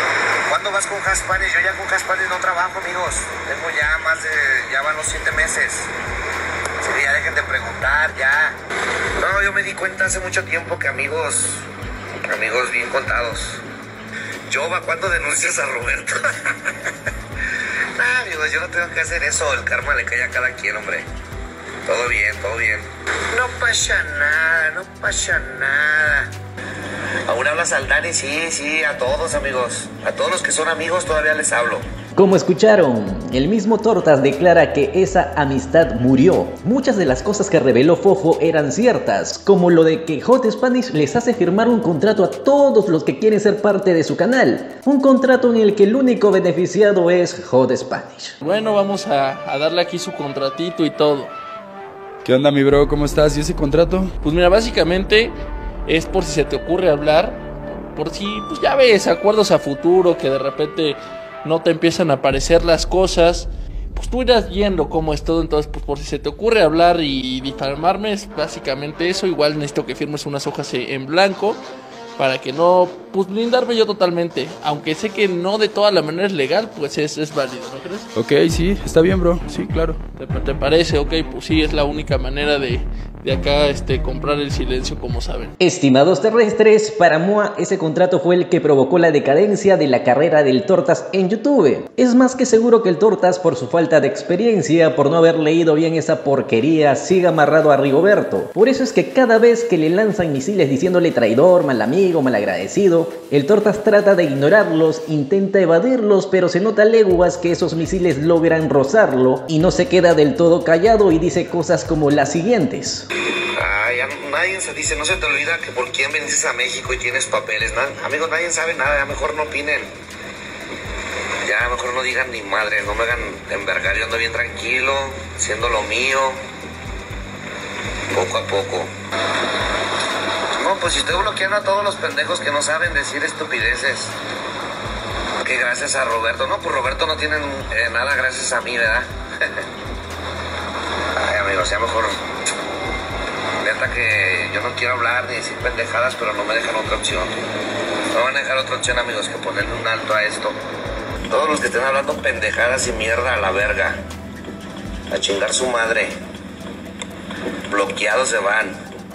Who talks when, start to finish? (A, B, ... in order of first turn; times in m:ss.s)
0:00.5-0:05.9 A
0:06.8-0:08.6 A
0:09.2-0:11.6 A
0:12.3-0:13.6 A
0:14.5-0:17.1 A
0:18.0-0:21.0 A
0:21.9-0:26.3 A
0:27.3-0:31.8 A
0:32.1-0:48.4 B
0:48.4-0:51.3 C
0:52.2-0:54.1 D
0:54.2-0:55.3 C
0:55.9-0:57.4 C
0:57.9-1:11.6 C
1:12.2-1:18.1 C
1:18.1-1:20.0 D
1:20.2-1:25.5 C
1:25.6-1:53.1 B
1:53.6-1:59.9 A
2:01.4-2:06.4 A
2:08.1-2:08.9 A
2:10.6-2:14.1 A
2:15.4-2:19.6 A
2:21.2-2:22.2 A
2:23.6-2:27.4 A
2:28.1-2:30.6 A
2:31.3-2:34.0 A
2:35.1-2:36.2 A
2:37.7-2:38.8 A